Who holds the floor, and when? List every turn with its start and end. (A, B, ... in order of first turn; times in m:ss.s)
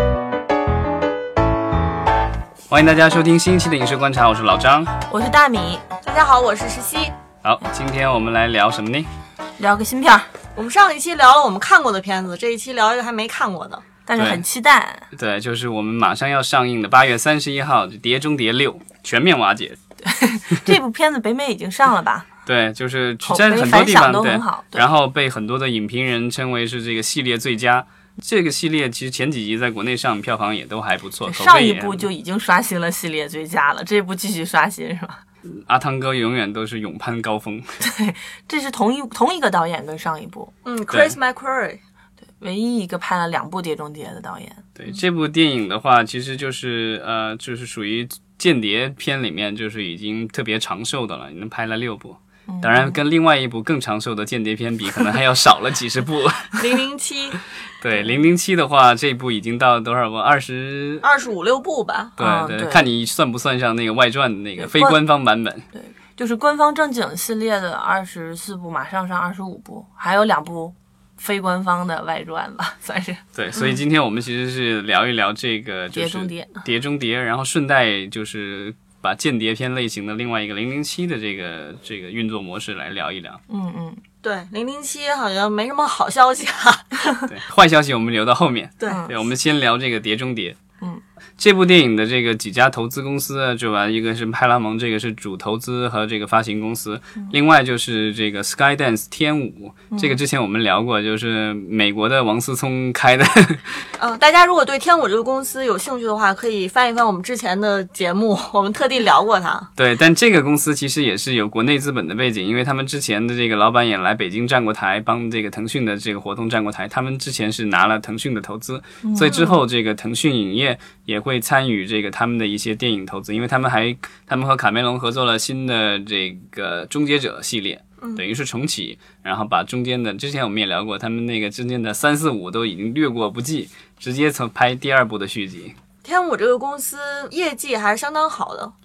0:02.7-0:04.9 A
0:05.1-0:05.9 B
0:06.0-0:07.1 C
0:07.4-0:09.1 A
0:09.6-0:10.3 B
0:10.6-0:13.8 C
0:14.0-0:15.1 B
0:14.1-0:14.4 A
0:15.1-0:19.8 A
0:20.0-0:22.3 B
0:22.4-0:32.1 A
0:23.2-0:24.8 B
0:31.2-0:35.2 B
0:35.6-0:37.7 A
0:37.8-0:40.5 B
0:40.6-0:41.8 C
0:42.4-0:44.6 B
0:44.8-0:56.6 A
0:52.5-0:53.0 B
0:56.6-0:57.4 C
0:57.8-1:01.0 A
1:01.0-1:02.1 C
1:02.2-1:05.6 A
1:02.2-1:02.9 B
1:04.6-1:05.0 B
1:05.7-1:13.2 B
1:13.3-1:23.4 A
1:15.9-1:16.6 B
1:23.5-1:24.0 B
1:24.2-1:27.2 C
1:27.2-1:30.6 A
1:28.9-1:29.1 B
1:31.4-1:43.8 A
1:39.9-1:40.2 B
1:44.0-1:49.7 C
1:49.8-2:15.7 A
1:59.0-1:59.6 B
2:16.0-2:18.7 C